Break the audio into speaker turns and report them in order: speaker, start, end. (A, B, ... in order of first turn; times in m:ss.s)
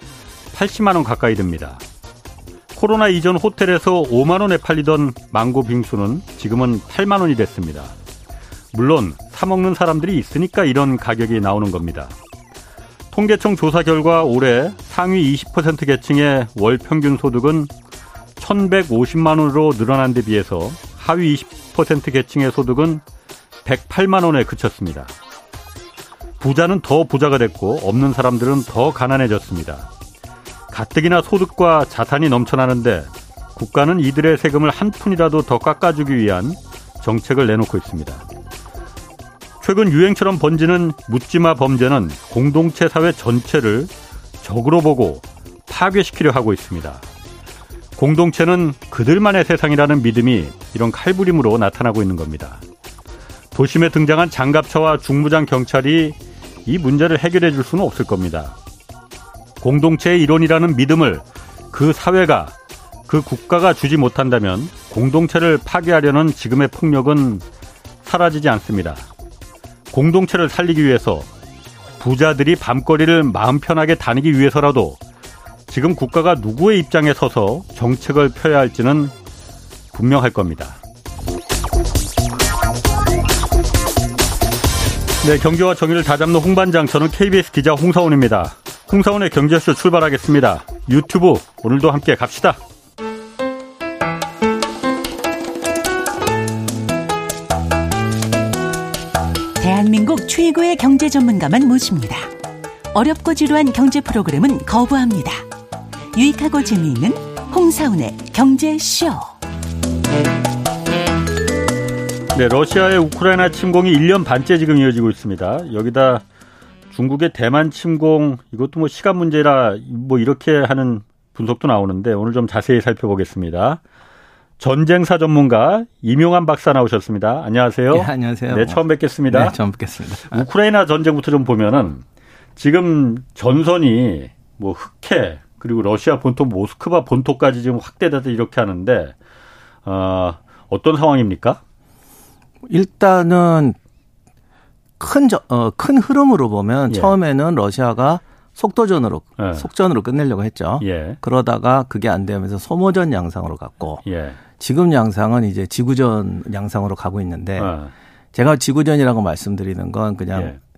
0:00.5-0:01.8 A
0:02.7-0:07.9 A
0:08.7-0:12.1 A
0:13.1-0:17.7 A
0:18.4-0:23.0 A
0:23.6-0:25.1 A
0:26.4-0:29.9 A
0:30.7-0:38.2 A
0:39.6-0:47.0 A
0:48.0-0:52.6 A
0:53.5-0:58.6 A
0:59.6-1:02.5 A
1:03.1-1:07.4 A
1:08.0-1:09.0 A
1:09.9-1:11.3 A
1:12.0-1:15.0 A
1:15.7-1:19.1 A
1:19.9-1:20.8 A
1:25.2-1:32.6 A
1:39.6-1:42.3 B
1:42.9-1:45.4 B
1:46.1-1:49.3 B
1:52.3-1:56.2 A
1:56.9-2:03.8 A
2:04.6-2:09.6 A
2:07.9-2:10.4 C
2:10.3-2:12.0 A
2:12.6-2:19.2 A
2:19.8-2:21.6 A
2:22.7-2:23.8 C
2:25.0-2:34.0 C
2:29.4-2:29.7 A
2:30.8-2:31.2 A
2:34.0-2:34.4 A
2:34.6-2:37.7 C
2:37.6-2:37.9 A
2:38.3-2:40.6 C